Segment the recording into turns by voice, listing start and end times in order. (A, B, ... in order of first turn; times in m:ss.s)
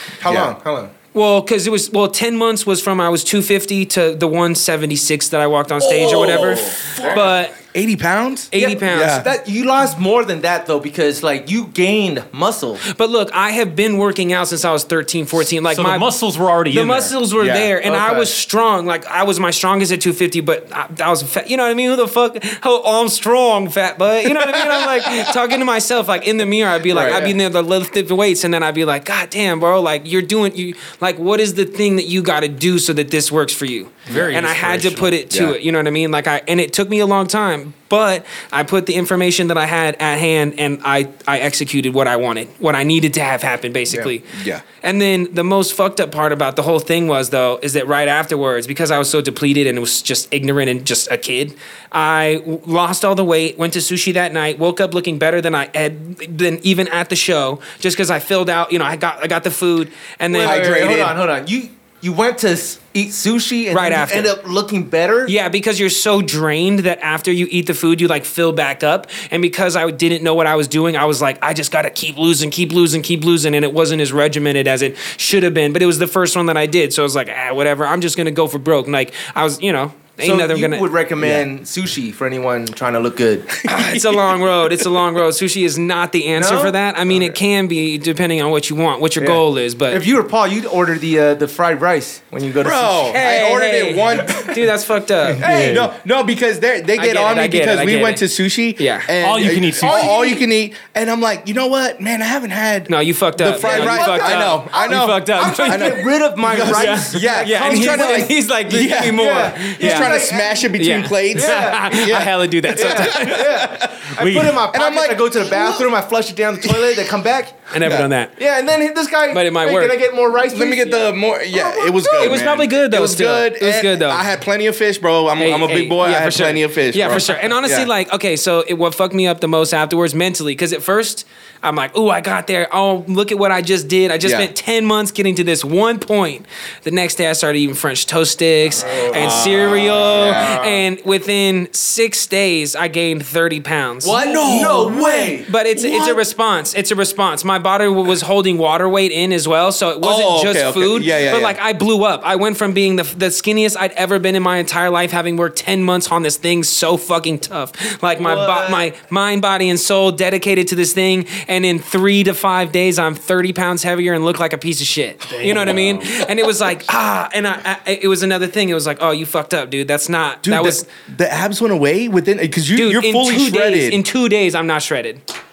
0:00.2-0:00.9 A
0:00.2-0:00.6 B
0:01.1-0:07.6 C
0:05.8-0:07.3 A
0:07.1-0:09.3 B
0:08.5-0:09.2 C
0:08.5-0:12.8 A
0:12.8-0:16.1 C
0:15.7-0:17.1 D
0:16.7-1:01.0 C
0:17.4-0:17.7 B
0:17.8-0:18.3 A
0:26.9-0:27.3 B
0:27.0-0:27.3 A
0:34.1-0:35.2 D
0:35.3-0:35.6 B
0:44.3-0:44.6 B
1:00.3-1:05.3 A
1:00.4-1:01.2 B
1:03.7-1:04.4 C
1:05.3-1:20.9 C
1:20.2-1:23.6 A
1:21.2-1:21.5 B
1:23.7-1:30.0 C
1:23.7-1:24.0 B
1:26.4-1:27.4 A
1:29.2-1:33.2 A
1:32.6-1:34.6 B
1:33.1-1:35.4 C
1:35.3-1:54.1 B
1:35.4-1:35.9 A
1:35.4-1:35.8 D
1:37.0-1:38.2 C
1:38.8-1:39.1 C
1:39.2-1:40.2 D
1:39.8-1:40.4 A
1:42.9-1:50.2 C
1:43.6-1:48.3 A
1:49.1-1:50.7 A
1:50.8-1:53.5 C
1:51.3-1:52.1 A
1:52.7-1:57.7 A
1:54.2-1:54.6 D
1:54.7-1:55.9 B
1:56.6-1:57.1 B
1:57.7-1:58.3 C
1:57.8-1:58.1 B
1:58.4-2:02.4 A
1:59.3-2:00.0 C
2:00.5-2:07.9 B
2:02.2-2:04.3 C
2:05.4-2:24.2 C
2:14.2-2:14.5 B
2:18.8-2:19.5 A
2:19.1-2:20.6 B
2:20.2-2:20.8 A
2:24.0-2:25.5 A
2:24.1-2:26.2 B
2:25.5-2:50.8 C
2:30.0-2:31.6 B
2:38.2-2:38.8 A
2:45.3-2:46.3 D
2:50.4-2:54.0 B
2:52.8-2:55.2 C